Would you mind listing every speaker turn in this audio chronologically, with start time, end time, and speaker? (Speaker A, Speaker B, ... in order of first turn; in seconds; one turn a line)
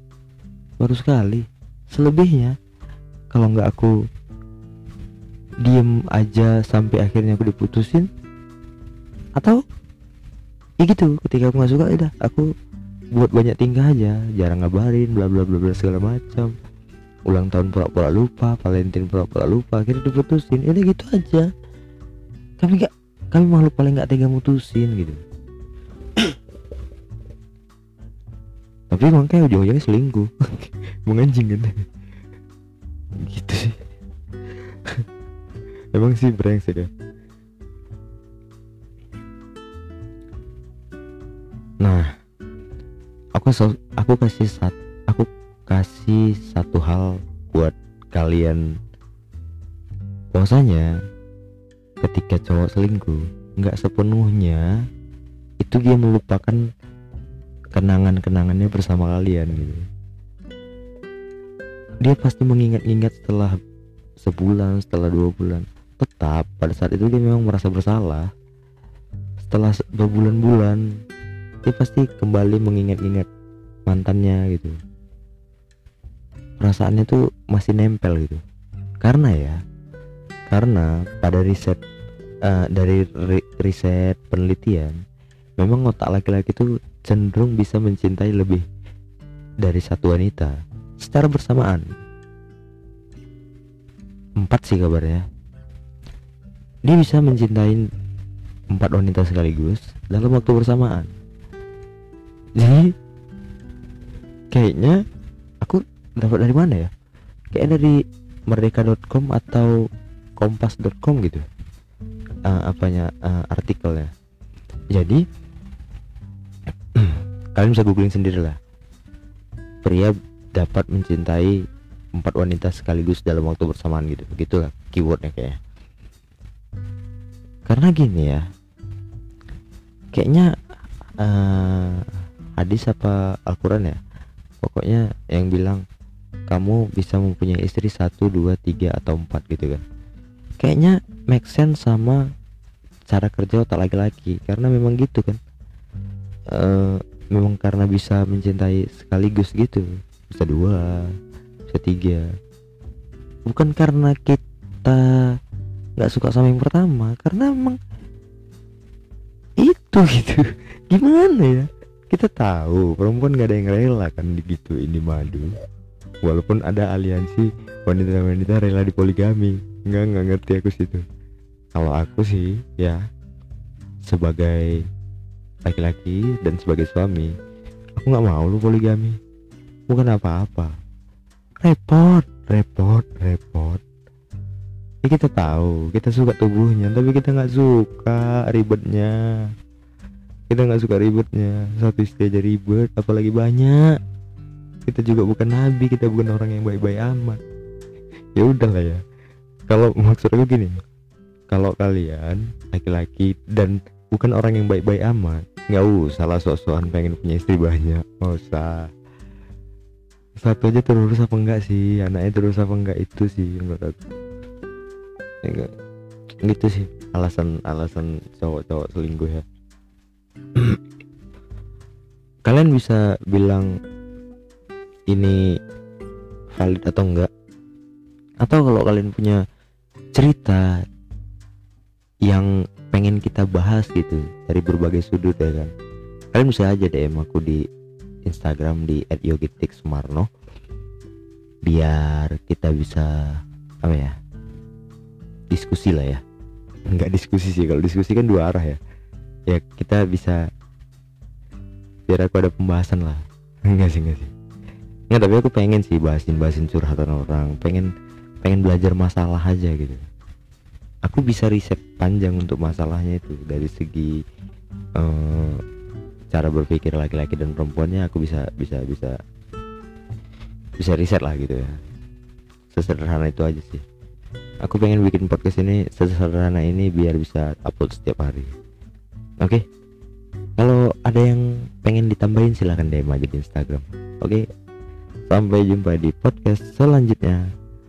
Speaker A: 0.8-2.5
Speaker A: 3.3-3.9
Speaker A: 5.6-8.1
Speaker A: 10.8-12.5
Speaker A: 13.2-16.5
Speaker A: 17.3-21.5
Speaker A: 22.6-25.2
Speaker A: 28.9-31.7
Speaker A: 33.2-33.8
Speaker A: 35.9-36.9
Speaker A: 41.8-42.1
Speaker A: 43.4-48.6
Speaker A: 50.3-50.9
Speaker A: 52.0-54.6
Speaker A: 55.6-56.6
Speaker A: 57.7-59.8
Speaker A: 62.0-63.6
Speaker A: 64.2-68.3
Speaker A: 69.4-70.8
Speaker A: 71.7-73.3
Speaker A: 73.9-74.7
Speaker A: 76.6-78.4
Speaker A: 79.0-79.6
Speaker A: 80.5-81.8
Speaker A: 82.5-84.9
Speaker A: 85.6-88.6
Speaker A: 89.6-91.9
Speaker A: 94.4-95.2
Speaker A: 96.9-97.8
Speaker A: 98.7-101.1
Speaker A: 102.6-102.9
Speaker A: 104.5-105.0
Speaker A: 105.6-106.9
Speaker A: 107.5-108.0
Speaker A: 108.5-109.7
Speaker A: 110.4-111.4
Speaker A: 112.5-114.1
Speaker A: 114.9-115.2
Speaker A: 117.0-118.6
Speaker A: 119.8-121.6
Speaker A: 122.2-125.6
Speaker A: 127.7-128.4
Speaker A: 130.1-130.5
Speaker A: 131.2-134.0
Speaker A: 134.6-135.8
Speaker A: 136.5-139.8
Speaker A: 140.6-142.2
Speaker A: 143.1-145.4
Speaker A: 146.5-151.1
Speaker A: 151.7-152.2
Speaker A: 153.5-155.1
Speaker A: 156.0-157.8
Speaker A: 159.6-165.5
Speaker A: 166.2-171.0
Speaker A: 171.7-173.0
Speaker A: 174.1-174.7
Speaker A: 175.7-177.3
Speaker A: 178.0-179.2
Speaker A: 179.9-180.7
Speaker A: 181.6-183.8
Speaker A: 185.1-189.1
Speaker A: 190.5-193.9
Speaker A: 194.8-197.4
Speaker A: 198.4-199.0
Speaker A: 199.7-200.8
Speaker A: 201.5-208.8
Speaker A: 210.4-214.0
Speaker A: 215.4-215.7
Speaker A: 216.4-219.4
Speaker A: 222.5-223.7
Speaker A: 225.1-225.4
Speaker A: 226.6-227.3
Speaker A: 228.4-229.4
Speaker A: 230.2-230.7
Speaker A: 232.3-235.7
Speaker A: 236.3-237.6
Speaker A: 238.3-240.3
Speaker A: 241.7-243.1
Speaker A: 243.8-244.1
Speaker A: 245.5-246.2
Speaker A: 246.9-248.8
Speaker A: 249.5-250.4
Speaker A: 252.1-254.3
Speaker A: 255.1-257.9
Speaker A: 258.4-260.0
Speaker A: 261.1-264.1
Speaker A: 265.0-265.6
Speaker A: 266.3-269.2
Speaker A: 270.8-271.8
Speaker A: 272.7-273.8
Speaker A: 274.6-278.5
Speaker A: 280.6-284.4
Speaker A: 285.3-287.4